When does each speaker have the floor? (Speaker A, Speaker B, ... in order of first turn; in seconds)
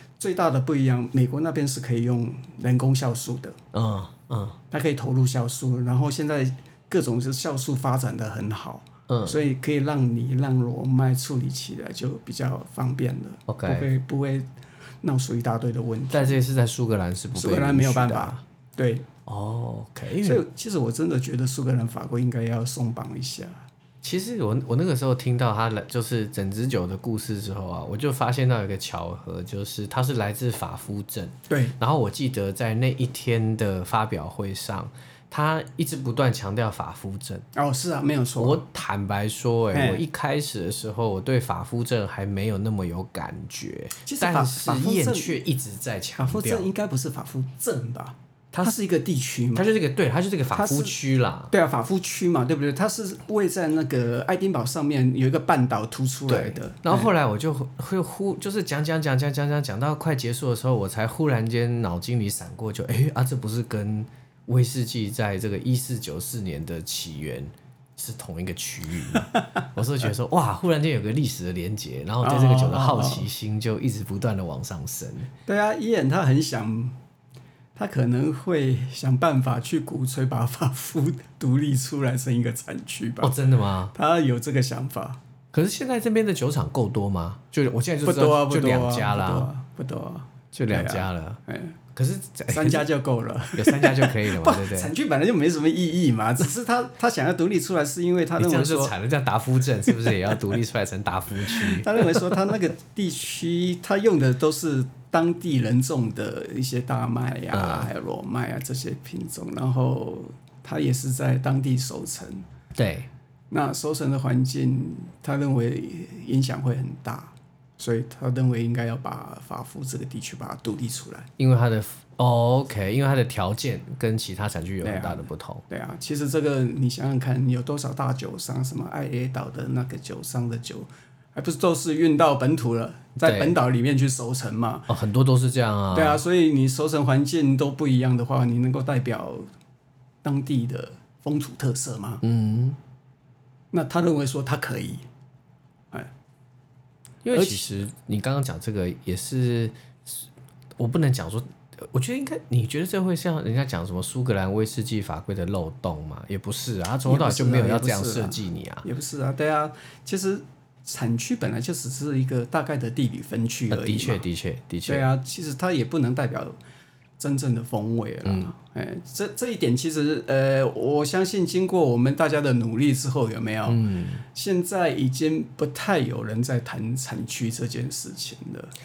Speaker A: 0.2-3.6, 4.7-14.4, 15.0-16.4, 17.3-19.1, 20.2-23.6, 31.5-31.8, 37.5-38.6, 39.7-40.0, 44.0-45.4, 46.2-49.7, 50.5-51.0, 51.5-57.1, 72.2-73.3, 75.5-77.0, 77.8-83.3, 83.9-85.2, 88.0-91.8, 92.5-98.9, 99.9-100.4, 101.4-112.5, 113.5-121.3, 124.8-134.9, 135.9-139.4, 140.2-142.2, 143.7-145.0, 147.3-147.7, 157.0-164.2, 164.8-166.6, 167.2-173.8, 174.3-178.7
Speaker B: 3.7-4.6, 9.1-9.4, 13.5-13.9, 16.1-18.4, 19.2-20.4, 24.0-37.5, 38.4-46.7, 49.5-51.5, 56.3-75.3, 83.2-83.9, 85.5-89.5, 90.5-91.4, 91.9-92.8, 93.5-94.9, 98.4-102.4, 107.5-107.9, 112.7-113.1, 121.4-125.6, 133.2-133.6, 134.9-136.2, 142.2-142.8, 147.2-158.8, 163.7-165.1, 168.2-168.5, 173.7-174.2